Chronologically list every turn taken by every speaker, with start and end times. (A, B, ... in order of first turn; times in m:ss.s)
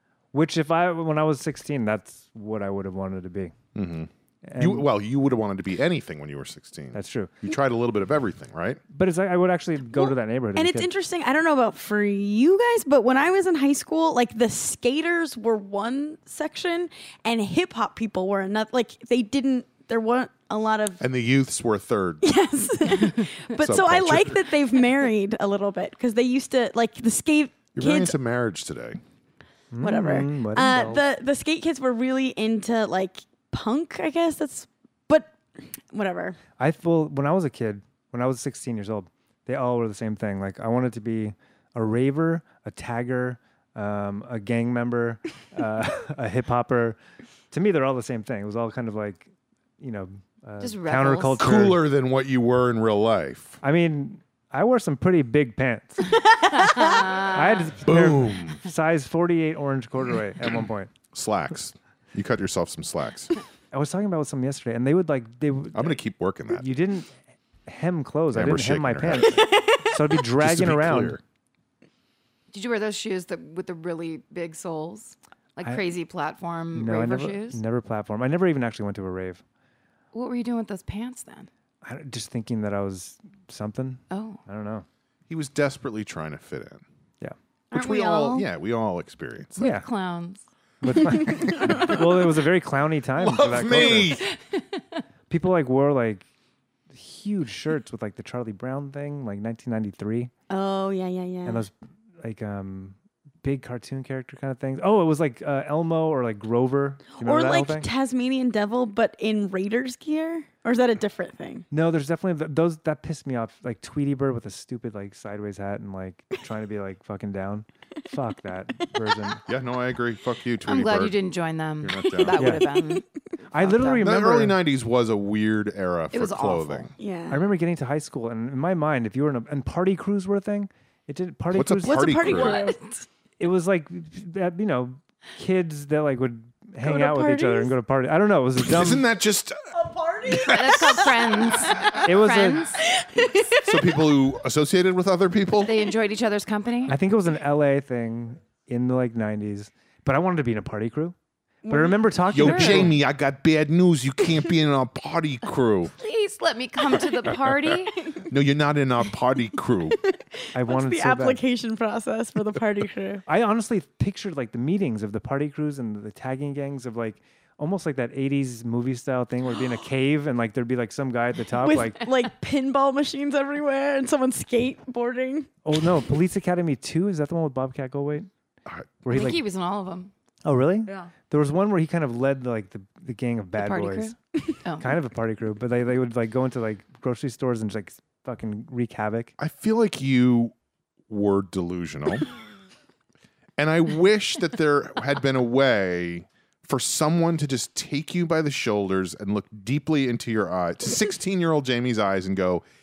0:00.3-0:03.6 A
0:03.8-0:08.8 B
0:04.4-0:04.9 A
0:06.9-0:07.4 A
0:08.9-0:10.9 A
0:10.0-0:21.0 C
0:21.0-0:22.2 B
0:22.2-0:28.1 C
0:23.6-0:24.5 B
0:27.8-0:29.0 B
0:29.7-0:31.0 A
0:29.8-0:36.4 C
0:36.6-0:47.0 A
0:47.5-0:51.8 A
0:50.6-0:51.4 D
0:51.4-0:53.6 B
0:53.6-0:56.0 A
0:56.3-0:56.9 C
0:56.5-0:57.8 D
0:57.2-1:00.9 A
0:57.8-0:58.6 B
1:01.1-1:03.3 B
1:03.7-1:06.0 A
1:05.7-1:06.6 B
1:06.5-1:07.1 A
1:07.6-1:11.2 A
1:08.3-1:09.4 B
1:09.5-1:09.9 C
1:10.3-1:11.2 B
1:12.5-1:17.6 D
1:16.7-1:19.4 A
1:20.1-1:21.5 D
1:21.8-1:24.9 A
1:24.1-1:24.4 D
1:25.3-1:26.8 B
1:27.7-1:28.5 C
1:27.7-1:29.7 B
1:29.6-1:29.9 A
1:29.6-1:30.4 D
1:30.8-1:34.2 A
1:31.3-1:31.9 C
1:31.5-1:31.9 B
1:33.2-1:34.2 B
1:34.4-1:34.8 D
1:35.3-1:36.3 A
1:36.9-1:40.3 A
1:40.5-1:41.6 C
1:41.4-1:47.9 A
1:47.2-1:51.6 C
1:51.7-1:59.4 A
1:59.5-2:01.2 B
2:00.6-2:04.0 D
2:01.8-2:02.6 B
2:02.4-2:02.7 A
2:03.5-2:04.6 A
2:03.8-2:06.9 B
2:06.1-2:06.9 D
2:07.0-2:07.4 C
2:07.3-2:12.4 A
2:11.5-2:12.6 B
2:11.8-2:12.8 C
2:12.3-2:13.0 D
2:13.4-2:19.0 A
2:16.8-2:17.7 C
2:18.6-2:19.6 B
2:19.8-2:20.8 C
2:20.2-2:20.8 B
2:20.3-2:22.8 D
2:22.0-2:22.7 A
2:22.9-2:23.7 C
2:23.6-2:25.8 B
2:25.6-2:26.9 D
2:26.9-2:31.2 A
2:31.6-2:32.0 C
2:31.7-2:33.0 A
2:32.3-2:35.9 B
2:32.4-2:32.9 D
2:36.0-2:38.1 D
2:38.2-2:40.0 B
2:40.0-2:43.2 C
2:40.5-2:41.4 A
2:43.3-2:52.0 A
2:51.6-2:55.5 C
2:55.6-2:58.3 A
2:58.6-2:58.9 B
2:59.0-2:59.4 A
2:59.1-3:00.1 D
3:00.4-3:04.1 A
3:03.6-3:05.0 D
3:04.8-3:09.3 A
3:09.4-3:10.5 B
3:11.1-3:12.3 B
3:13.6-3:22.6 B